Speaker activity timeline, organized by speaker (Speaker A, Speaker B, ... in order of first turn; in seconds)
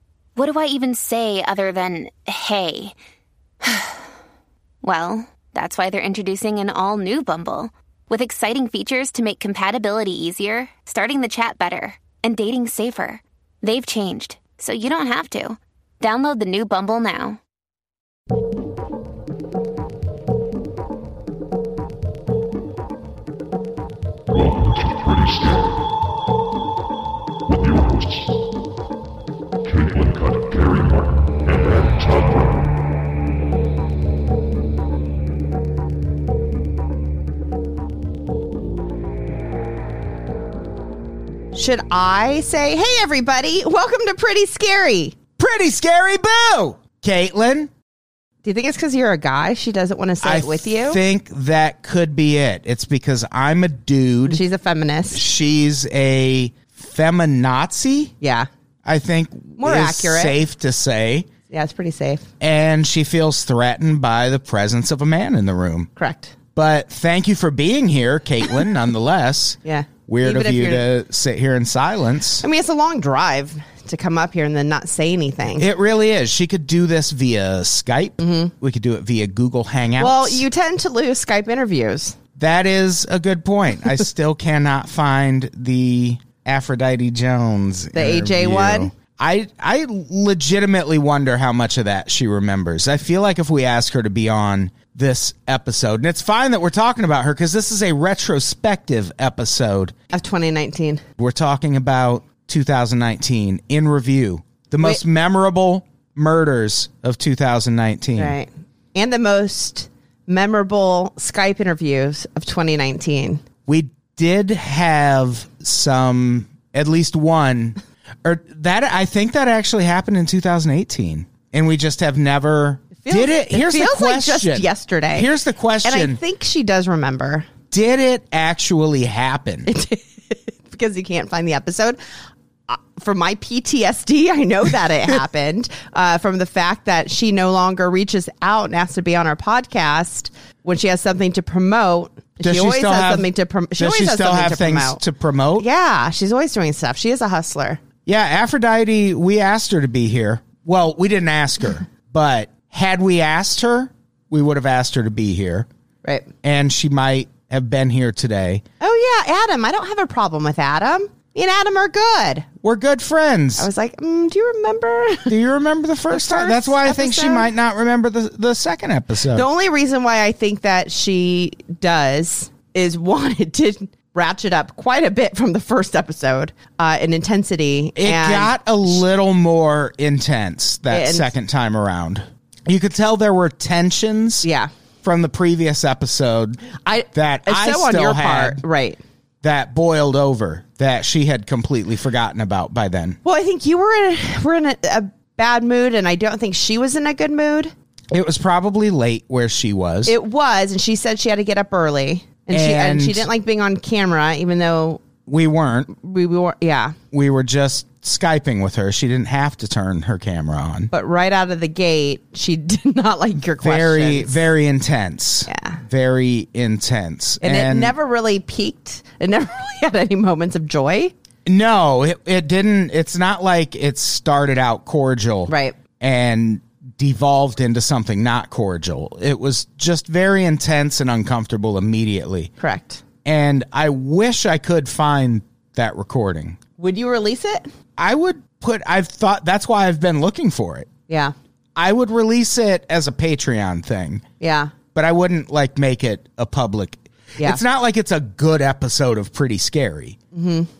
Speaker A: 0.4-3.0, 3.6-4.0, 4.8-17.4
Speaker B: 24.3-25.9, 27.5-28.4, 29.6-32.8
Speaker C: 41.5-45.2, 48.4-51.0, 54.3-55.2, 58.2-58.5, 59.6-60.4, 61.5-62.3, 66.0-66.3, 69.6-70.8, 72.4-75.7, 78.2-78.5, 80.0-82.2, 87.9-88.9, 100.1-101.0, 108.2-113.4, 123.0-125.3, 125.8-127.5, 129.7-132.0, 132.7-145.0, 145.6-147.8, 158.8-162.5, 163.6-165.3, 166.1-167.5, 169.3-178.6, 180.9-181.3, 184.4-184.7, 186.8-189.0, 193.2-197.7, 200.1-205.0, 205.9-207.0, 210.9-214.4, 215.5-215.8, 217.4-221.1, 225.5-225.8, 232.6-233.0, 236.8-237.7, 241.1-241.3, 244.4-244.7, 250.3-250.7
Speaker D: 45.4-47.7, 50.2-54.4, 55.1-58.1, 58.9-61.3, 62.4-65.9, 66.5-72.5, 75.5-80.4, 82.4-99.9, 101.2-108.4, 113.7-126.2, 127.7-129.7, 142.4-145.7, 148.1-155.7, 156.4-158.6, 162.6-163.7, 165.3-169.5, 178.0-184.5, 185.0-188.6, 189.4-193.2, 198.1-200.1, 202.5-203.3, 205.3-205.9, 207.1-210.9, 213.6-217.9, 221.5-232.5, 233.2-236.6, 238.0-240.9, 241.8-244.2, 244.9-250.2